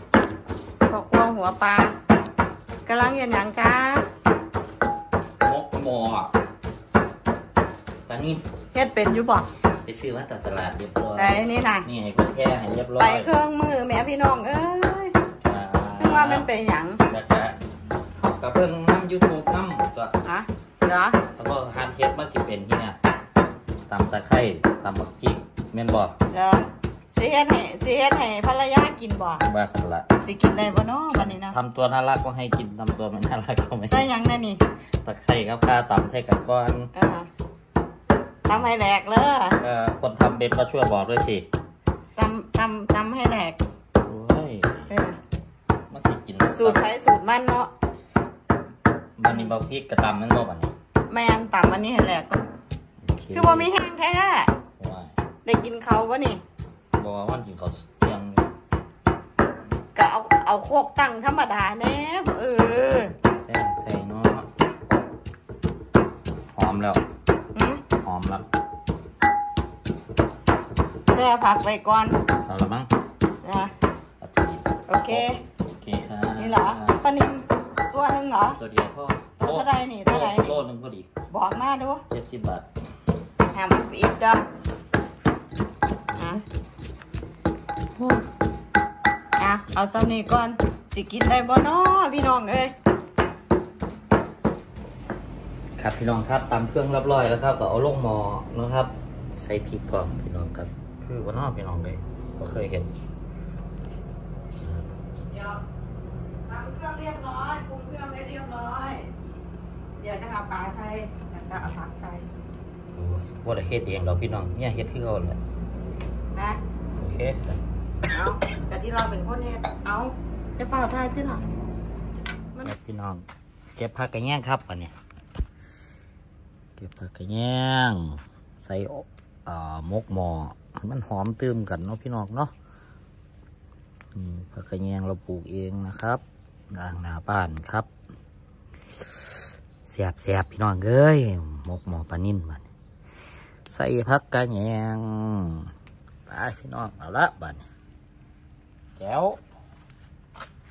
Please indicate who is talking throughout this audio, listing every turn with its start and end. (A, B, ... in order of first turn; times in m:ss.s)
0:00.9-0:02.0 A
0:02.9-0:04.1 A
0:05.4-0:06.3 B
0:08.1-0:08.4 B
0:08.7-0:09.5 A
0:09.8-0:13.3 B
0:11.2-0:11.9 A
0:13.0-0:15.2 A
0:15.4-0:16.5 B
0:16.0-0:17.0 A
0:17.1-0:17.6 B
0:18.2-0:20.2 B
0:20.2-0:21.2 A
0:21.3-0:23.0 B
0:23.9-0:26.2 B
0:26.3-0:29.5 A
0:29.4-0:30.1 B
0:30.2-0:31.6 A
0:31.1-0:34.1 B
0:33.8-0:34.6 A
0:35.0-0:36.9 B
0:36.9-0:37.3 A
0:38.5-0:39.6 A
0:39.6-0:41.5 B
0:42.2-0:43.6 A
0:44.0-0:44.9 B
0:44.9-0:45.2 A
0:45.9-0:46.9 B
0:46.5-0:47.7 A
0:49.2-0:50.7 B
0:51.1-0:52.4 A
0:53.0-0:53.7 B
0:53.3-0:54.5 A
0:54.8-0:55.2 B
0:55.4-0:56.4 A
0:57.0-0:58.5 B
1:00.0-1:03.1 A
1:03.4-1:04.5 B
1:06.5-1:07.0 B
1:07.6-1:07.8 A
1:08.0-1:08.4 B
1:11.1-1:12.2 A
1:12.4-1:12.9 B
1:13.4-1:13.7 A
1:14.2-1:17.0 B
1:14.9-1:15.4 A
1:16.4-1:18.6 A
1:18.6-1:21.1 B
1:19.4-1:20.6 A
1:21.3-1:22.0 A
1:22.1-1:22.7 B
1:23.5-1:24.5 A
1:26.2-1:26.4 A
1:28.0-1:28.3 A
1:29.4-1:32.7 A
1:35.8-1:42.9 B
1:44.6-1:44.9 B
1:45.3-1:45.6 A
1:46.5-1:49.1 A
1:50.0-1:52.3 A
1:52.9-1:55.4 B
1:56.3-1:56.6 A
1:57.0-1:57.6 B
1:58.1-2:01.4 A
2:02.6-2:04.9 B
2:06.8-2:12.5 B
2:14.1-2:17.9 B
2:19.0-2:22.6 B
2:23.7-2:25.7 B
2:26.3-2:27.7 B
2:29.0-2:29.4 B